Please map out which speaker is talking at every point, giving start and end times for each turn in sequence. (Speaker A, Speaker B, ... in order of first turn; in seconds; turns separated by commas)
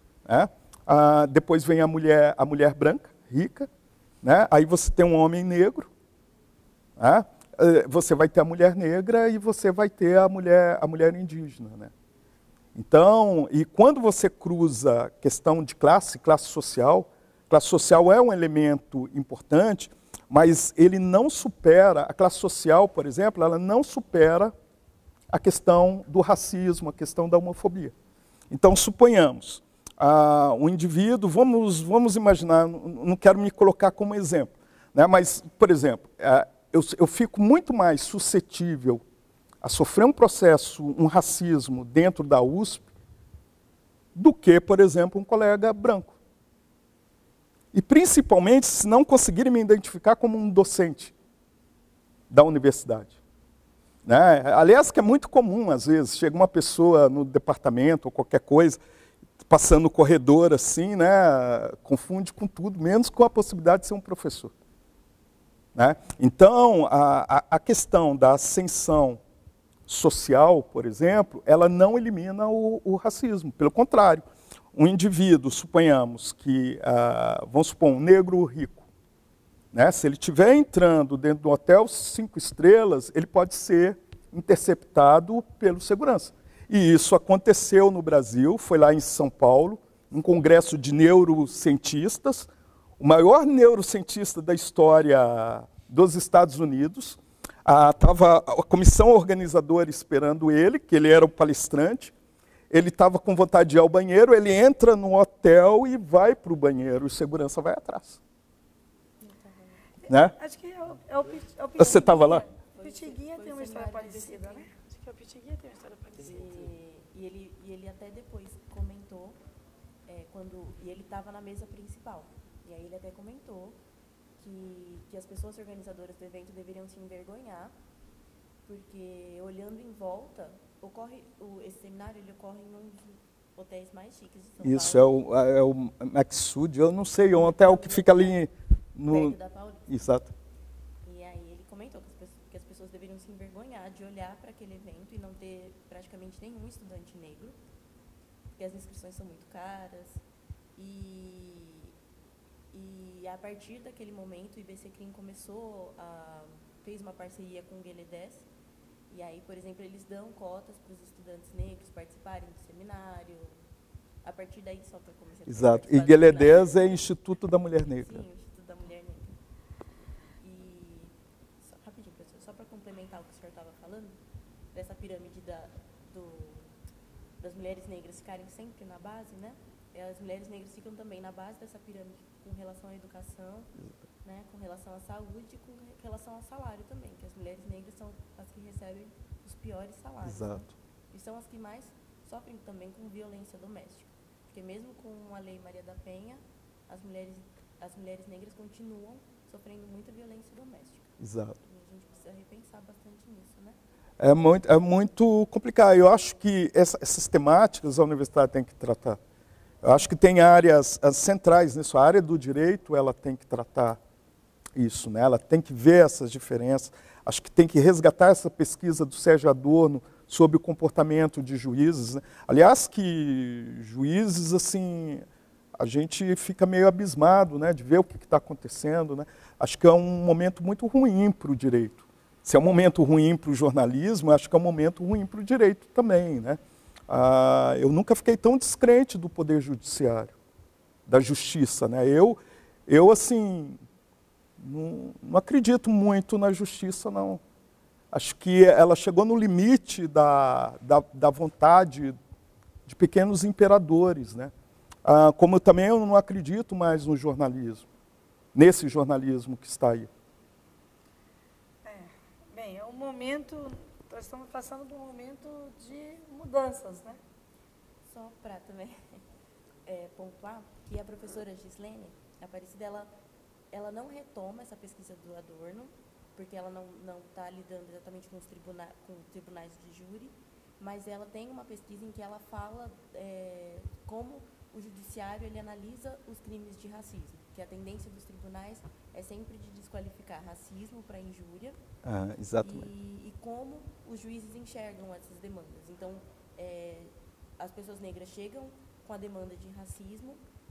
Speaker A: 0.3-3.7, Speaker A: 4.2-5.9, Speaker A: 7.0-11.9, Speaker A: 12.8-24.5, Speaker A: 25.3-27.9, Speaker A: 28.5-39.0, Speaker A: 39.6-42.9, Speaker A: 44.1-46.1, Speaker A: 47.7-51.1, Speaker A: 52.3-53.1, Speaker A: 54.1-58.8, Speaker A: 59.5-64.5, Speaker A: 65.8-69.2, Speaker A: 69.9-78.8, Speaker A: 79.7-102.1, Speaker A: 102.7-108.2, Speaker B: 109.2-109.8, Speaker C: 110.0-116.7, Speaker A: 110.1-110.3, Speaker A: 111.8-112.4, Speaker B: 112.7-114.7, Speaker B: 116.2-119.4, Speaker B: 120.1-123.8, Speaker B: 124.4-127.7, Speaker B: 128.7-135.1, Speaker A: 134.6-139.4, Speaker B: 137.3-138.4, Speaker B: 139.1-140.0, Speaker A: 139.9-140.3, Speaker B: 141.0-147.6, Speaker B: 148.6-150.2, Speaker B: 150.8-151.9, Speaker B: 152.7-158.4, Speaker B: 159.1-163.6, Speaker B: 164.2-167.1, Speaker A: 165.5-168.2, Speaker B: 167.9-169.4, Speaker B: 170.4-174.2, Speaker B: 174.7-176.7, Speaker B: 177.4-183.7, Speaker B: 184.2-203.8, Speaker A: 190.2-190.7, Speaker A: 201.2-201.6, Speaker A: 204.2-209.2, Speaker A: 209.8-214.0, Speaker A: 214.8-225.2, Speaker A: 225.8-240.3, Speaker A: 241.1-243.8, Speaker A: 244.6-247.4, Speaker A: 248.1-252.2, Speaker A: 252.9-254.5, Speaker A: 255.1-257.9, Speaker A: 258.5-260.1, Speaker C: 261.8-267.2, Speaker B: 268.1-269.2, Speaker B: 269.9-273.1, Speaker B: 273.7-291.8, Speaker A: 292.0-292.9, Speaker B: 292.6-300.4